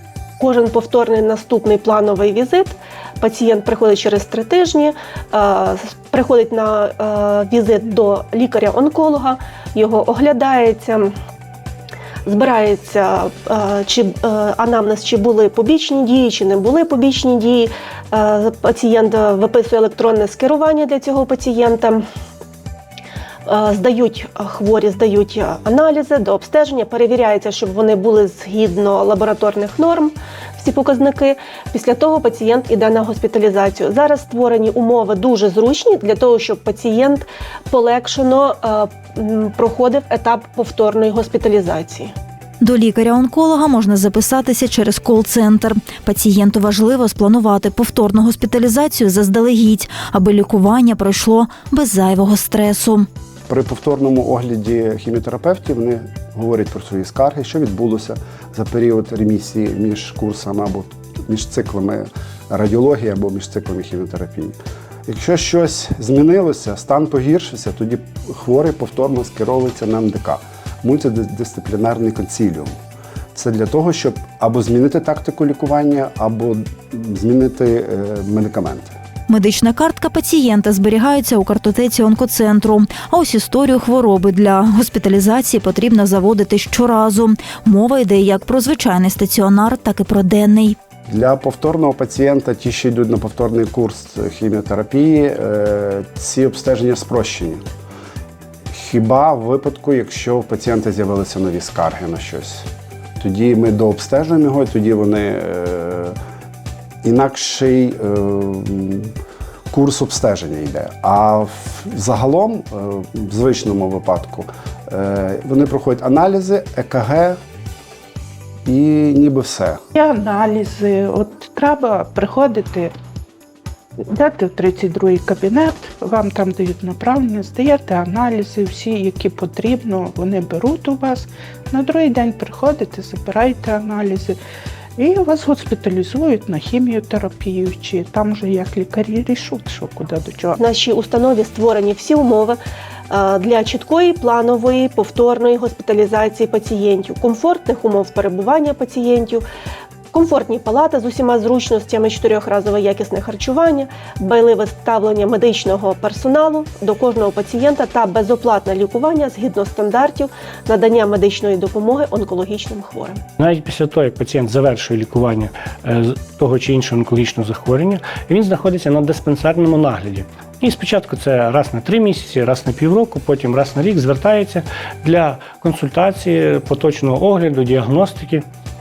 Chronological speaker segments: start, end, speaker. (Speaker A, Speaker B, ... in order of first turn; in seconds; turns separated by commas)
Speaker A: 0.4-11.1, Speaker A: 12.2-22.0, Speaker A: 23.5-42.1, Speaker B: 42.6-53.1, Speaker C: 53.5-72.7, Speaker C: 73.3-78.9, Speaker B: 79.3-90.8, Speaker C: 91.1-97.6, Speaker C: 98.7-102.7, Speaker C: 103.2-106.2, Speaker C: 107.0-109.1, Speaker C: 109.7-117.4, Speaker C: 118.7-119.8, Speaker D: 119.9-122.9, Speaker D: 124.0-134.4, Speaker D: 135.0-140.6, Speaker A: 140.6-149.4, Speaker A: 150.1-163.2, Speaker E: 163.4-178.4